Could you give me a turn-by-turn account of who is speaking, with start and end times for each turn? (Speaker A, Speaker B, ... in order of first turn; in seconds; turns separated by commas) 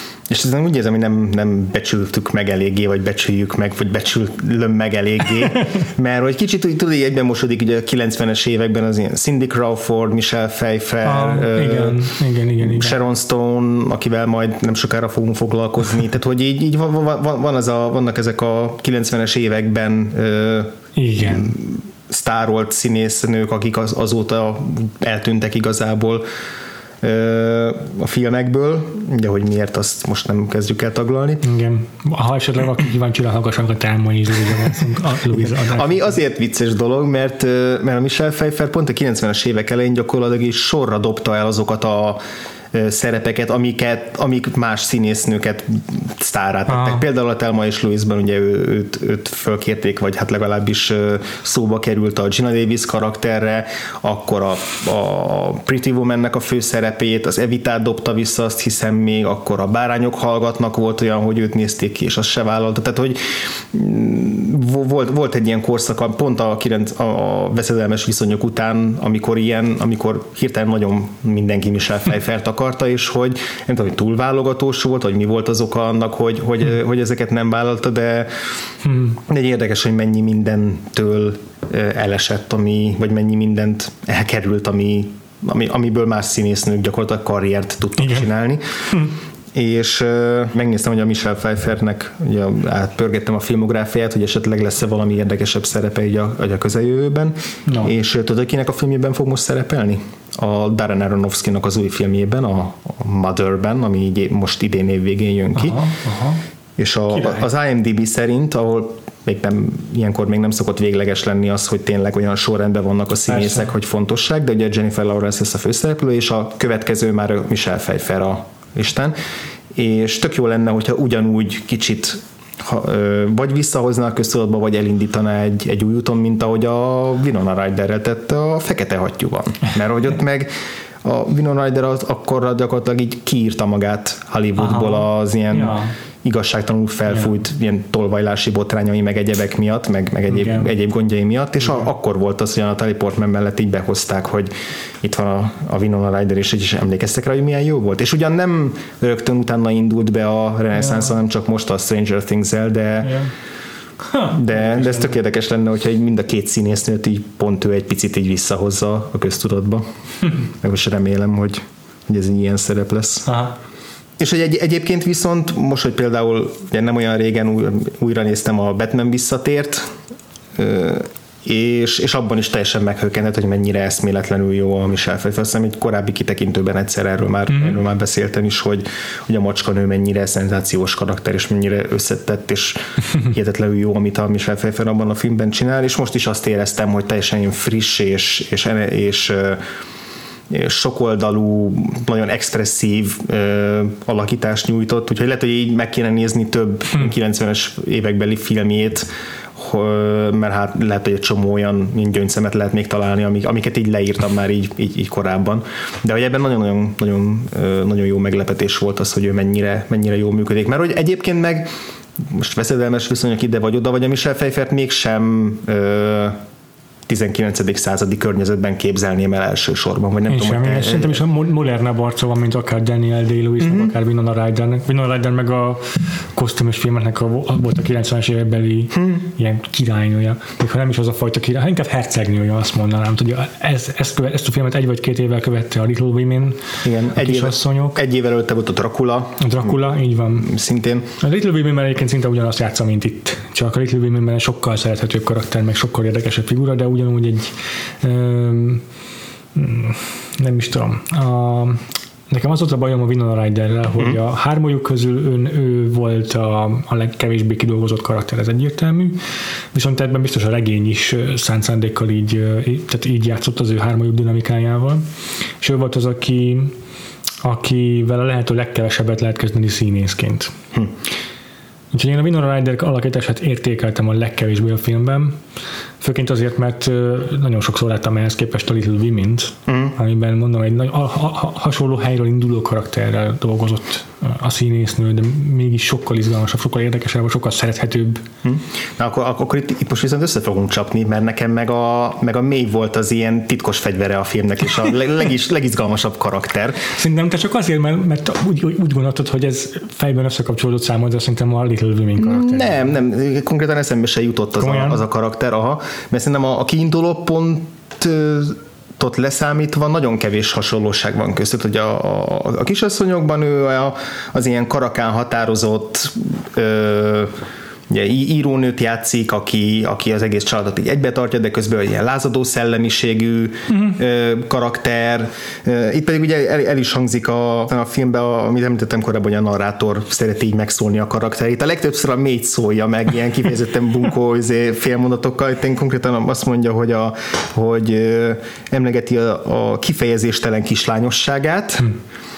Speaker A: 0.3-26.2, Speaker B: 11.0-13.0, Speaker B: 20.9-21.5, Speaker A: 27.0-31.4, Speaker B: 31.4-36.0, Speaker A: 35.3-42.2, Speaker A: 42.7-63.2, Speaker B: 46.7-47.0, Speaker A: 63.7-78.3, Speaker B: 78.8-79.2, Speaker A: 79.3-88.9, Speaker B: 88.0-88.2, Speaker A: 89.5-105.8, Speaker B: 105.5-106.4, Speaker A: 106.8-119.2, Speaker B: 107.1-107.4, Speaker B: 113.3-113.6, Speaker A: 119.7-130.5, Speaker A: 131.0-144.5, Speaker B: 134.6-135.9, Speaker B: 140.3-140.7, Speaker A: 145.0-153.2, Speaker B: 150.7-151.1, Speaker B: 153.0-153.3, Speaker B: 154.1-155.1, Speaker A: 154.2-163.3, Speaker B: 163.3-163.6, Speaker A: 164.2-169.9, Speaker A: 170.6-189.6, Speaker B: 177.5-177.8, Speaker A: 190.5-216.4, Speaker A: 217.1-221.2, Speaker B: 220.3-236.6, Speaker A: 223.6-223.9, Speaker A: 228.9-229.2, Speaker A: 236.8-239.8, Speaker B: 237.1-238.0, Speaker B: 239.4-240.5, Speaker A: 240.4-241.1, Speaker B: 241.2-248.8, Speaker B: 249.5-265.1, Speaker B: 265.6-266.7, Speaker B: 267.4-270.5, Speaker B: 271.9-275.4, Speaker B: 276.0-288.2, Speaker A: 279.7-279.9, Speaker A: 288.4-296.9, Speaker B: 296.9-302.8, Speaker A: 302.2-317.3, Speaker B: 304.6-305.0, Speaker A: 317.9-341.9, Speaker B: 323.7-324.0